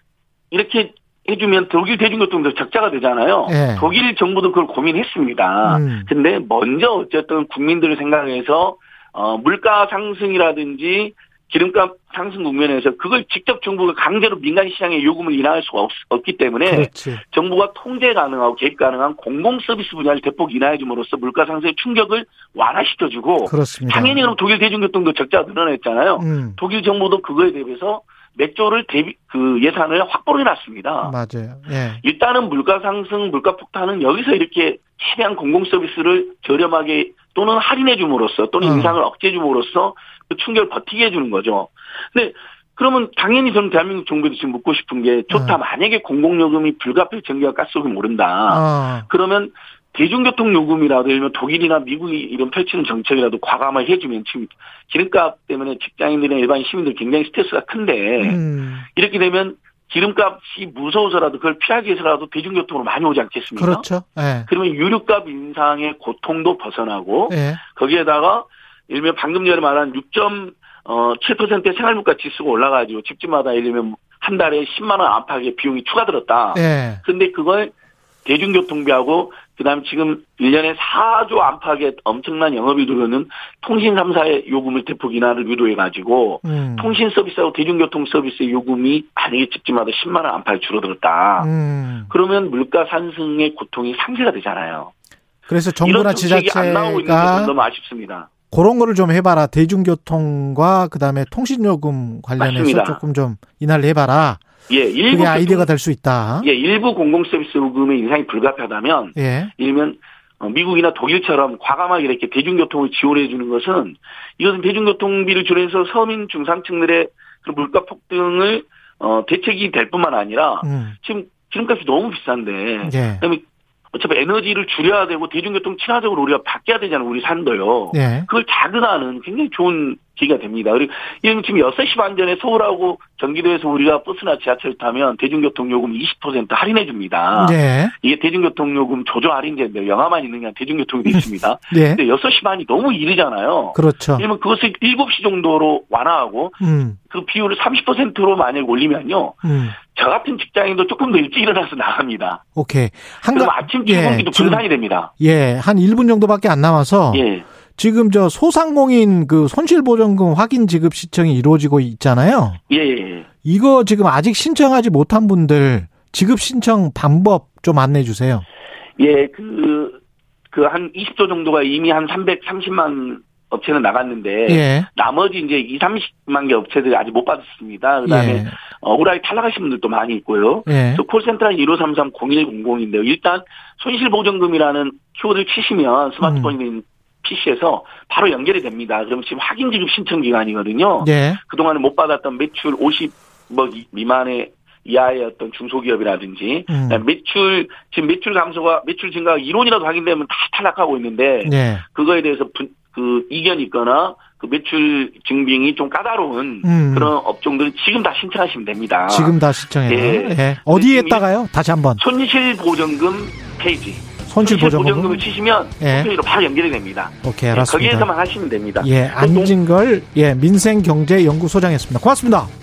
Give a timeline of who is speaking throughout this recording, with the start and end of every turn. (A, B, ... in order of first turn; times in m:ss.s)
0:00.5-0:31.2 A
0:03.5-0:03.9 B
0:05.6-0:06.1 B
0:16.6-0:17.2 B
0:23.4-0:24.4 B
0:26.2-0:26.6 B
0:31.0-0:32.0 B
0:32.0-1:03.9 A
0:38.6-0:39.0 B
0:45.3-0:45.6 B
0:48.5-0:49.1 B
0:58.2-0:58.9 B
1:03.6-1:04.5 B
1:04.5-1:17.7 A
1:07.3-1:07.6 B
1:16.6-1:17.0 B
1:18.2-1:31.5 A
1:26.4-1:27.0 B
1:31.4-1:32.1 B
1:32.1-1:34.9 A
1:35.5-1:37.5 B
1:35.8-1:38.3 A
1:38.5-1:44.4 B
1:42.4-1:43.0 A
1:44.7-1:45.7 A
1:45.1-1:46.5 B
1:46.4-2:32.4 A
1:49.2-1:49.5 B
2:00.6-2:01.0 B
2:02.8-2:03.2 B
2:07.9-2:08.3 B
2:17.3-2:17.9 B
2:21.1-2:22.0 B
2:23.8-2:24.3 B
2:26.6-2:27.0 B
2:29.4-2:29.8 B
2:32.6-2:34.6 B
2:33.3-2:35.1 A
2:35.2-2:37.2 B
2:37.1-2:37.4 A
2:37.8-2:42.6 B
2:42.7-2:43.3 A
2:43.4-2:48.4 B
2:49.0-2:50.0 A
2:50.5-3:31.3 A
2:54.5-2:54.9 B
2:58.1-2:58.5 B
3:00.7-3:01.0 B
3:06.2-3:06.5 B
3:11.0-3:11.4 B
3:16.7-3:17.0 B
3:21.4-3:21.8 B
3:26.6-3:27.2 B
3:29.1-3:32.0 B
3:32.0-3:39.5 A
3:34.3-3:35.3 B
3:35.8-3:36.1 B
3:37.2-3:38.1 B
3:38.8-3:42.5 B